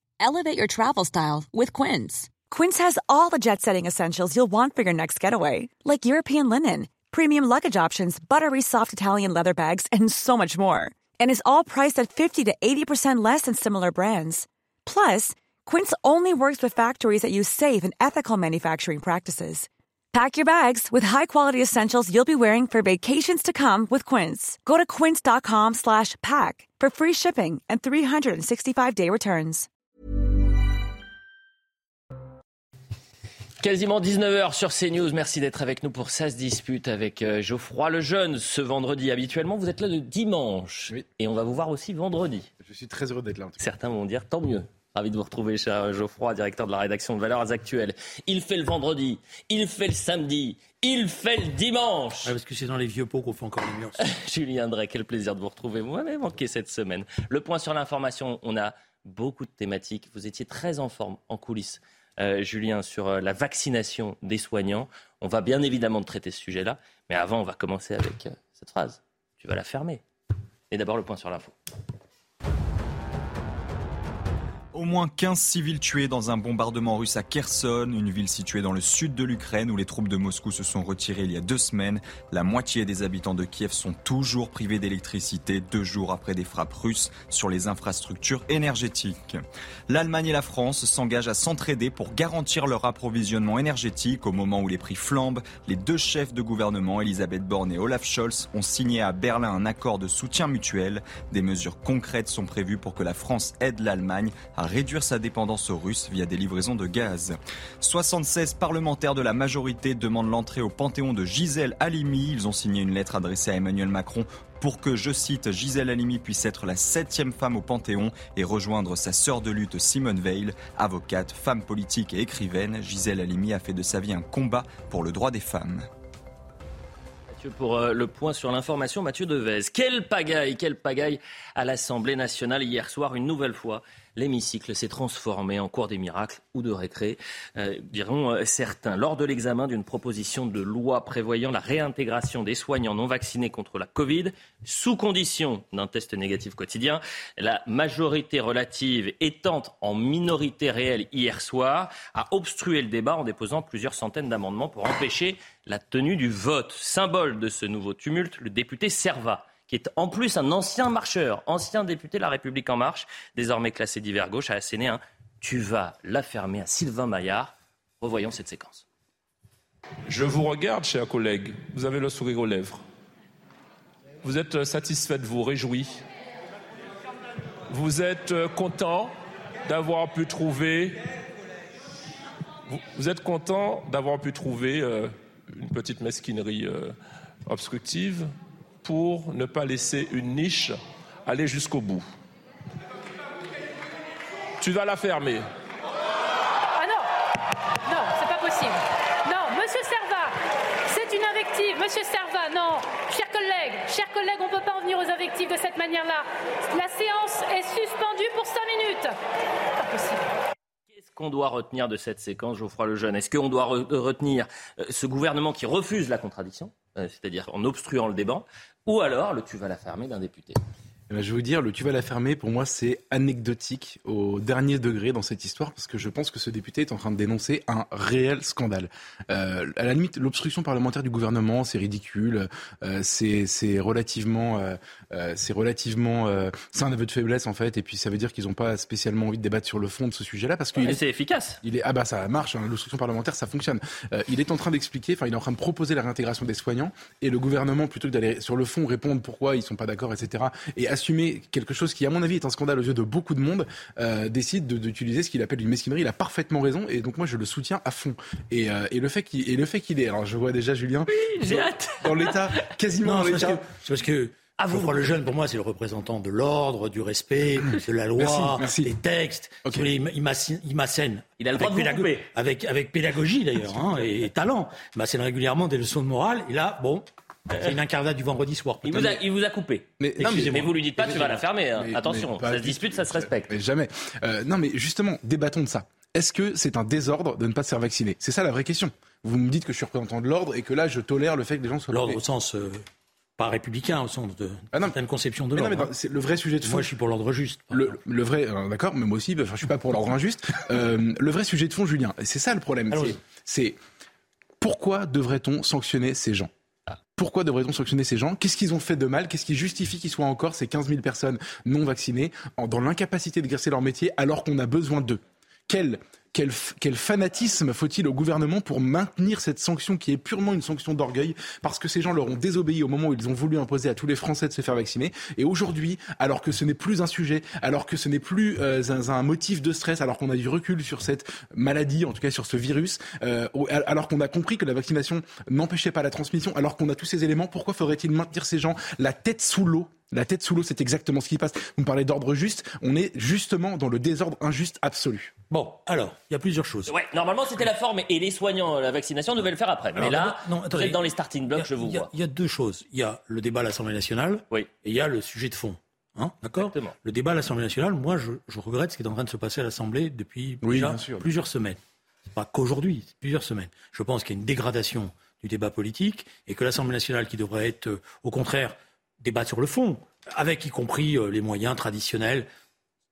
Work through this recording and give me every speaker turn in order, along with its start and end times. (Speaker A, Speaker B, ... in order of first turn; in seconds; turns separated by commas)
Speaker A: 0.2-2.4, Speaker B: 2.4-29.7, Speaker C: 33.6-42.5, Speaker D: 42.6-43.6, Speaker C: 43.6-52.4, Speaker E: 52.2-54.1, Speaker C: 54.0-70.0, Speaker C: 70.7-71.5, Speaker F: 74.7-125.9, Speaker C: 127.3-168.8, Speaker G: 170.1-172.8, Speaker G: 174.2-176.0, Speaker G: 177.7-179.1, Speaker G: 179.7-181.1, Speaker G: 182.7-187.0, Speaker G: 187.5-192.1, Speaker G: 194.6-195.5, Speaker H: 196.8-197.1, Speaker H: 197.8-200.3, Speaker H: 200.9-209.2, Speaker H: 209.8-210.3, Speaker C: 210.9-220.6, Speaker D: 221.1-241.0, Speaker C: 240.8-241.6, Speaker D: 241.6-263.7, Speaker C: 261.3-262.6, Speaker E: 263.0-279.2, Speaker C: 264.6-265.1, Speaker D: 268.2-268.9, Speaker C: 271.4-272.2, Speaker C: 278.8-279.9, Speaker D: 280.0-280.7, Speaker E: 280.2-281.4, Speaker C: 280.4-283.5, Speaker D: 281.8-292.2, Speaker E: 291.9-292.9, Speaker E: 293.4-295.9, Speaker D: 295.5-296.9, Speaker E: 296.6-298.0, Speaker D: 297.7-303.8, Speaker E: 302.9-303.2, Speaker D: 304.6-306.5, Speaker D: 307.2-345.3, Speaker E: 345.5-346.9, Speaker C: 346.9-352.1, Speaker E: 350.0-351.0, Speaker E: 351.5-361.8, Speaker C: 356.6-356.9, Speaker D: 360.6-361.3, Speaker E: 362.3-372.5